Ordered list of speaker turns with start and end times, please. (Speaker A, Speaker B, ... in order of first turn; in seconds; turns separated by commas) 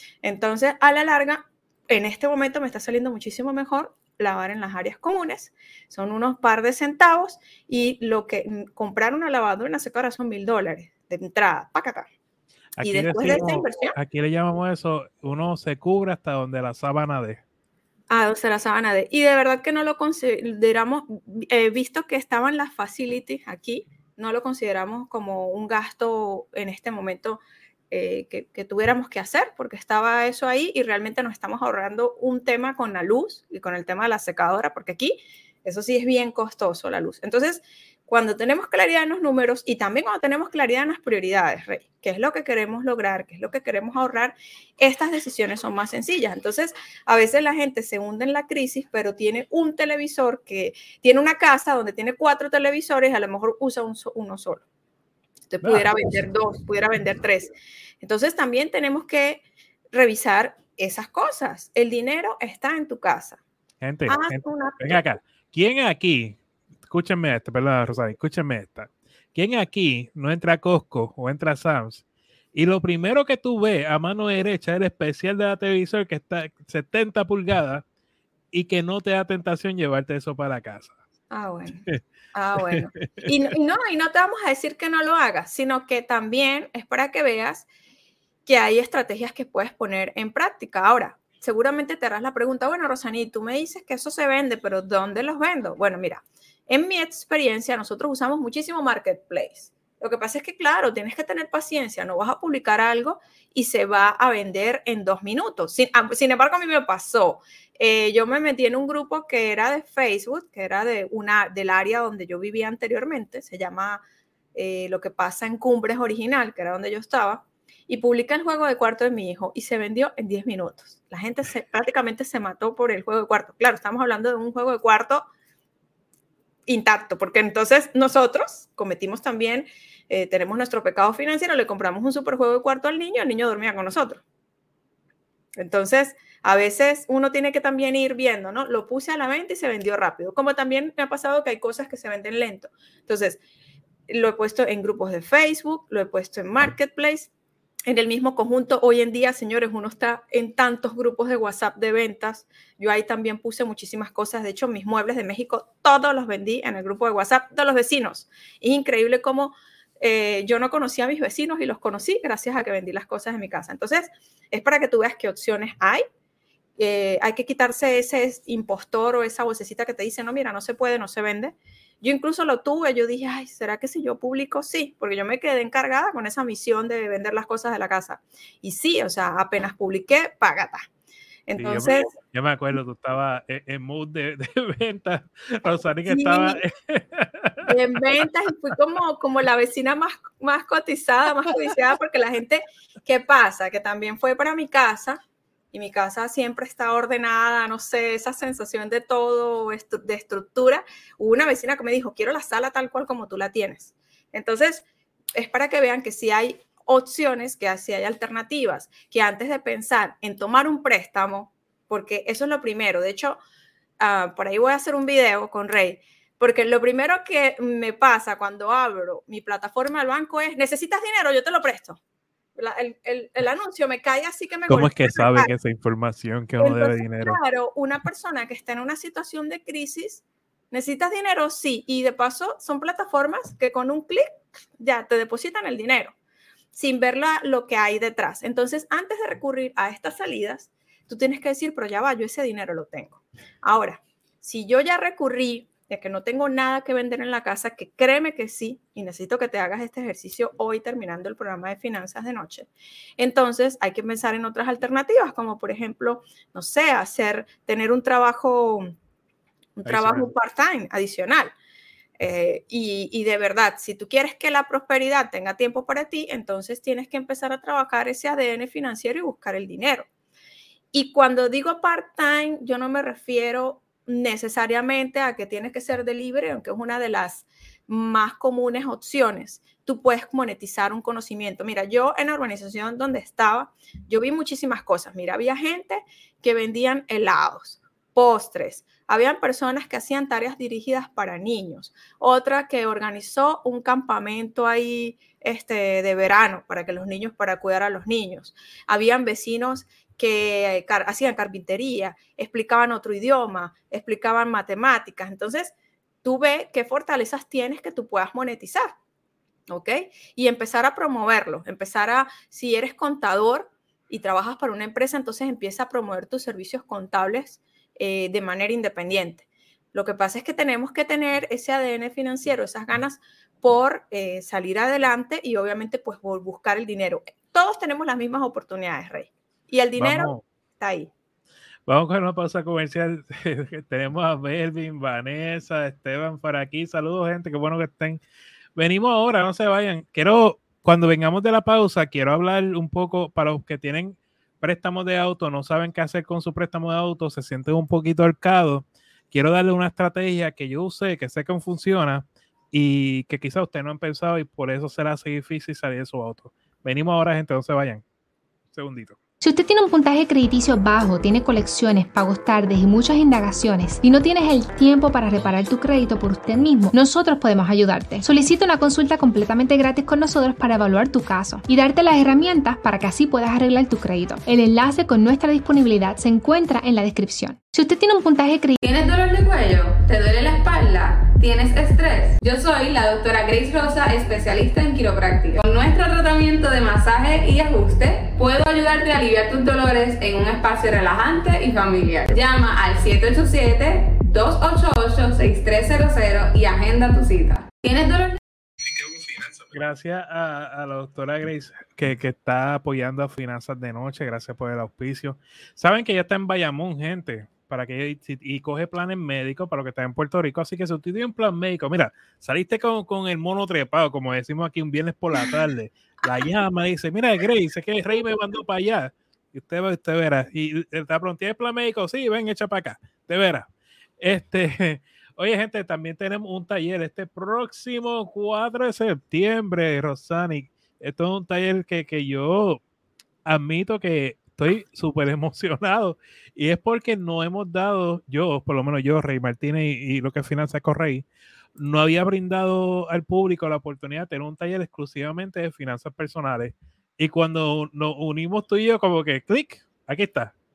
Speaker A: 0.2-12.1, Speaker B: 12.8-17.4, Speaker A: 12.8-14.0, Speaker A: 18.1-54.6, Speaker A: 55.5-63.4, Speaker B: 55.6-55.9, Speaker B: 63.8-77.8, Speaker A: 64.1-65.0, Speaker B: 78.5-80.9, Speaker A: 81.3-87.7, Speaker B: 82.6-83.3, Speaker A: 88.5-114.0, Speaker A: 114.5-125.3, Speaker A: 126.7-134.2, Speaker A: 135.6-143.4, Speaker A: 144.1-147.3, Speaker A: 147.9-166.0, Speaker A: 166.8-180.9, Speaker A: 181.5-182.1, Speaker B: 181.6-187.7, Speaker A: 186.1-186.6, Speaker A: 187.7-195.2, Speaker A: 195.7-213.4, Speaker A: 214.0-222.0, Speaker A: 222.6-225.5, Speaker B: 224.7-227.4, Speaker A: 226.6-236.2, Speaker A: 236.7-258.9, Speaker A: 259.8-261.5, Speaker B: 259.9-260.3, Speaker A: 262.2-270.1, Speaker A: 270.9-309.0, Speaker A: 309.7-331.1, Speaker B: 330.0-330.4, Speaker B: 331.9-338.2, Speaker B: 338.8-358.0, Speaker B: 358.7-359.2, Speaker C: 359.4-378.8, Speaker D: 378.8-398.4, Speaker B: 398.9-423.7, Speaker B: 424.2-432.8, Speaker B: 433.5-450.5